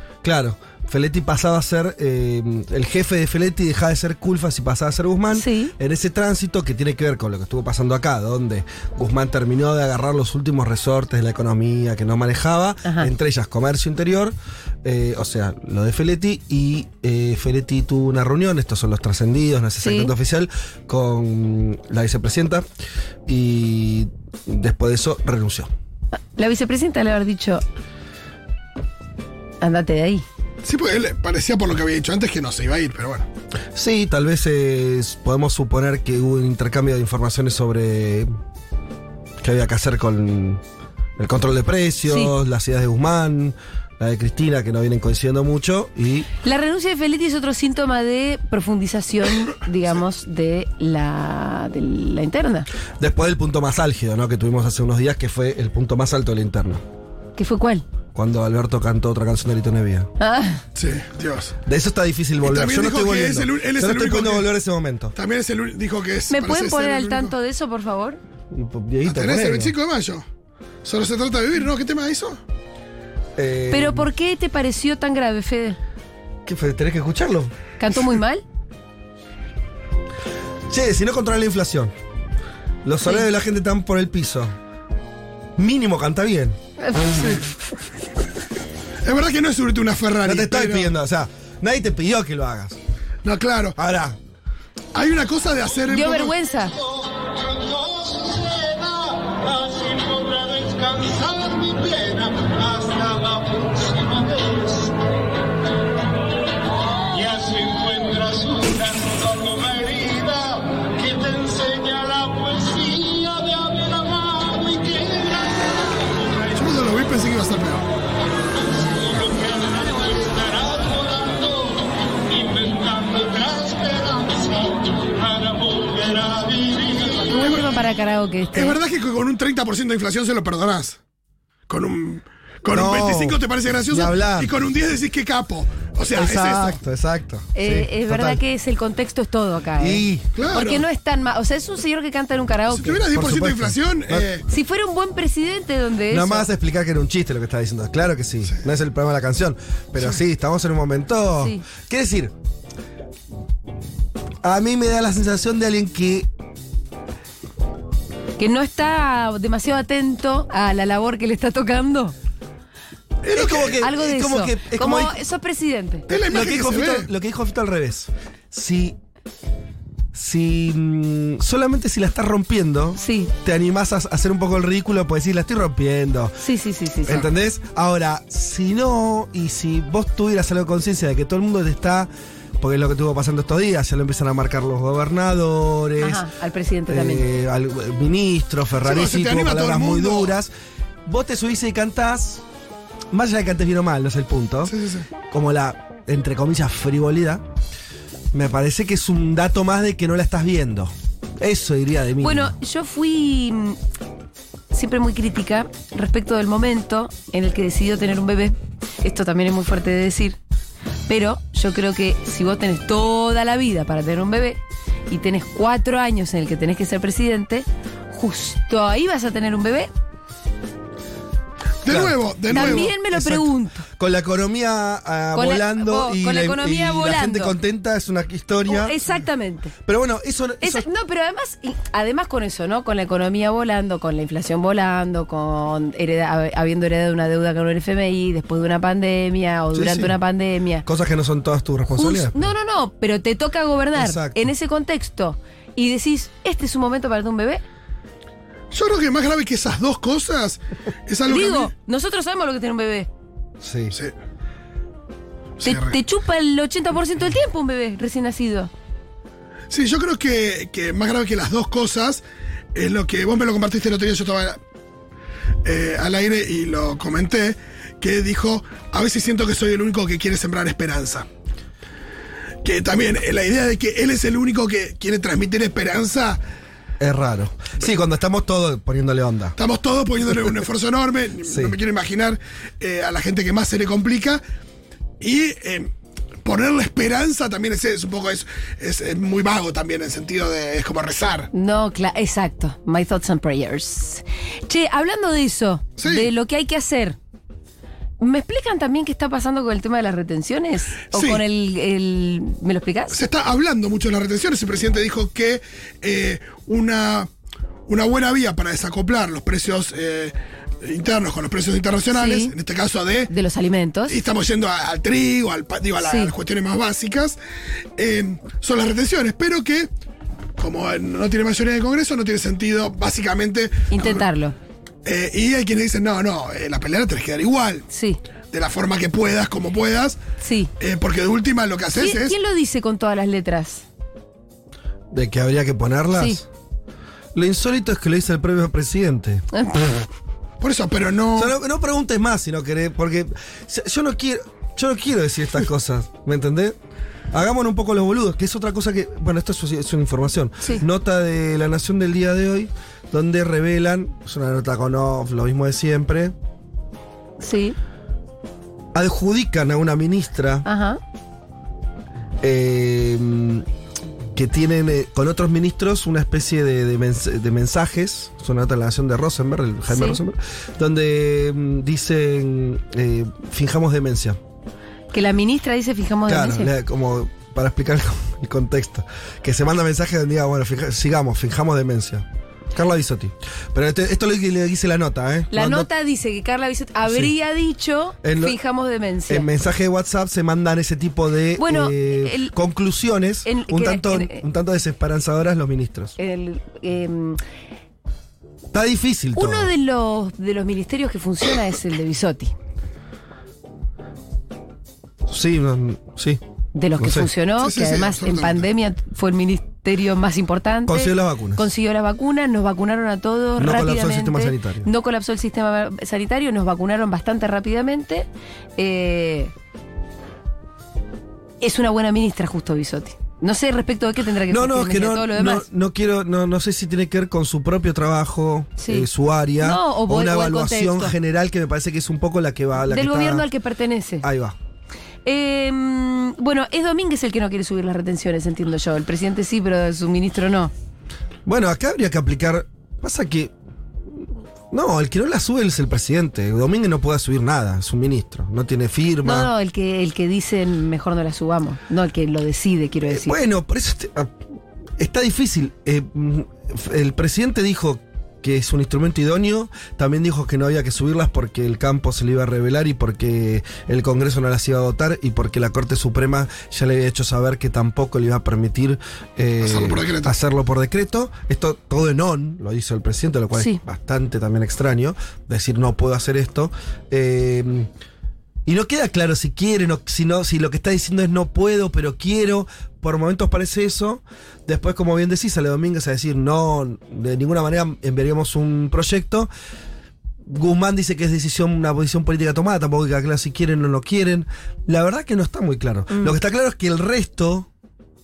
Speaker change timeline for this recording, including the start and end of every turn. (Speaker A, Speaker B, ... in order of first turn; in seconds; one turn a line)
Speaker A: 0.2-22.6
Speaker B: 5.3-5.7
Speaker B: 12.8-13.1
Speaker B: 19.8-20.1
Speaker A: 23.2-25.7
Speaker B: 26.3-27.6
Speaker B: 29.6-30.2
Speaker C: 30.6-33.3
Speaker A: 33.7-38.3
Speaker A: 39.4-40.6
Speaker A: 41.2-46.3
Speaker B: 42.1-42.3
Speaker B: 46.4-52.7
Speaker A: 53.0-56.8
Speaker B: 57.4-57.8
Speaker A: 58.1-60.1
Speaker B: 60.2-60.6
Speaker C: 60.7-61.6
Speaker A: 61.6-65.1
Speaker C: 62.4-64.5
Speaker C: 65.1-67.3
Speaker B: 66.3-68.2
Speaker A: 68.5-69.7
Speaker C: 69.0-70.2
Speaker C: 70.8-72.4
Speaker A: 73.3-74.1
Speaker B: 73.7-75.8
Speaker A: 76.5-77.5
Speaker B: 77.8-78.4
Speaker A: 80.7-81.9
Speaker A: 82.8-84.5
Speaker A: 85.5-86.6
Speaker B: 86.9-87.1
Speaker C: 87.1-87.4
Speaker C: 89.0-90.9
Speaker A: 90.2-92.8
Speaker C: 93.2-93.8
Speaker A: 93.8-94.2
Speaker C: 94.9-96.3
Speaker B: 95.9-96.8
Speaker D: 97.9-104.6
Speaker D: 107.1-115.2
Speaker C: 116.5-117.8
Speaker D: 119.1-121.4
Speaker D: 122.3-124.5
Speaker D: 125.4-126.7
Speaker B: 127.2-128.8
Speaker C: 127.4-127.7
Speaker C: 128.5-131.0
Speaker C: 131.7-136.8
Speaker A: 132.7-134.5
Speaker A: 136.1-138.4
Speaker B: 137.5-143.1
Speaker A: 139.8-140.3
Speaker C: 140.3-140.8
Speaker C: 142.7-144.4
Speaker A: 143.1-144.2
Speaker B: 144.5-146.5
Speaker A: 146.1-152.3
Speaker A: 154.4-156.3
Speaker B: 158.4-162.1
Speaker C: 163.2-163.8
Speaker A: 163.3-165.2
Speaker B: 163.8-166.1
Speaker C: 166.1-167.1
Speaker A: 166.1-169.0
Speaker A: 170.1-176.4
Speaker B: 173.0-173.3
Speaker B: 176.4-177.2
Speaker A: 177.1-186.3
Speaker B: 186.0-187.2
Speaker A: 186.9-190.5
Speaker C: 188.8-190.3
Speaker A: 191.1-192.4
Speaker A: 193.1-194.8
Speaker C: 194.7-195.1
Speaker A: 195.3-197.4
Speaker A: 198.3-202.5
Speaker B: 202.2-203.8
Speaker B: 204.7-210.4
Speaker B: 211.1-219.9
Speaker C: 221.8-222.9
Speaker A: 221.9-229.0
Speaker B: 222.5-223.8
Speaker B: 225.3-227.5
Speaker B: 228.7-229.7
Speaker A: 229.8-230.9
Speaker B: 230.6-240.8
Speaker A: 239.7-240.2
Speaker A: 240.8-242.5
Speaker B: 241.9-247.6
Speaker A: 243.9-244.5
Speaker C: 248.7-251.7
Speaker B: 251.3-253.1
Speaker A: 253.6-253.9
Speaker C: 255.6-256.0
Speaker B: 255.6-258.7
Speaker C: 259.7-262.2
Speaker C: 262.7-264.6
Speaker C: 265.6-271.3
Speaker C: 272.6-276.4
Speaker A: 277.0-279.6
Speaker C: 279.6-284.4
Speaker A: 281.4-281.8
Speaker C: 285.2-285.9
Speaker C: 286.4-291.5
Speaker B: 291.5-297.2
Speaker C: 296.0-296.3
Speaker B: 298.2-303.2
Speaker C: 301.1-301.4
Speaker C: 303.1-307.3
Speaker C: 307.9-313.3
Speaker B: 312.1-312.5
Speaker B: 313.3-314.2
Speaker C: 314.1-317.4
Speaker B: 316.0-316.3
Speaker C: 318.0-319.9
Speaker C: 320.6-324.2
Speaker B: 323.9-324.5
Speaker C: 325.0-327.8
Speaker B: 327.9-328.2
Speaker C: 328.5-330.2
Speaker B: 330.4-330.7
Speaker C: 330.8-332.4
Speaker B: 331.9-333.8
Speaker A: 335.1-336.4
Speaker B: 336.1-336.4
Speaker A: 337.3-339.4
Speaker B: 339.5-339.8
Speaker C: 340.6-341.5
Speaker A: 341.4-346.8
Speaker A: 347.3-356.3
Speaker B: 357.4-357.8
Speaker A: 358.9-360.6
Speaker B: 360.6-361.0
Speaker A: 362.4-363.6
Speaker A: 364.3-374.4
Speaker B: 369.9-370.2
Speaker B: 375.1-376.7
Speaker A: 376.3-385.9
Speaker B: 385.5-389.5
Speaker A: 387.1-387.3
Speaker A: 388.2-388.6
Speaker A: 389.3-396.1
Speaker B: 391.6-392.5
Speaker B: 393.4-394.4
Speaker B: 396.2-397.4
Speaker A: 398.7-399.7
Speaker B: 399.3-402.5
Speaker A: 405.3-406.4
Speaker B: 406.7-419.5
Speaker A: 407.0-407.3
Speaker C: 407.6-408.7
Speaker A: 410.9-411.7
Speaker A: 413.6-414.9
Speaker B: 421.6-425.6
Speaker A: 424.5-433.5
Speaker B: 428.8-429.1
Speaker B: 429.6-431.1
Speaker B: 432.9-434.2
Speaker A: 434.2-434.6
Speaker B: 435.2-440.7
Speaker A: 441.4-443.5
Speaker A: 444.1-449.5
Speaker B: 449.2-453.4
Speaker A: 453.1-454.4
Speaker A: 455.0-477.9
Speaker C: 469.6-470.3
Speaker A: 478.6-489.5
Speaker A: 490.4-497.7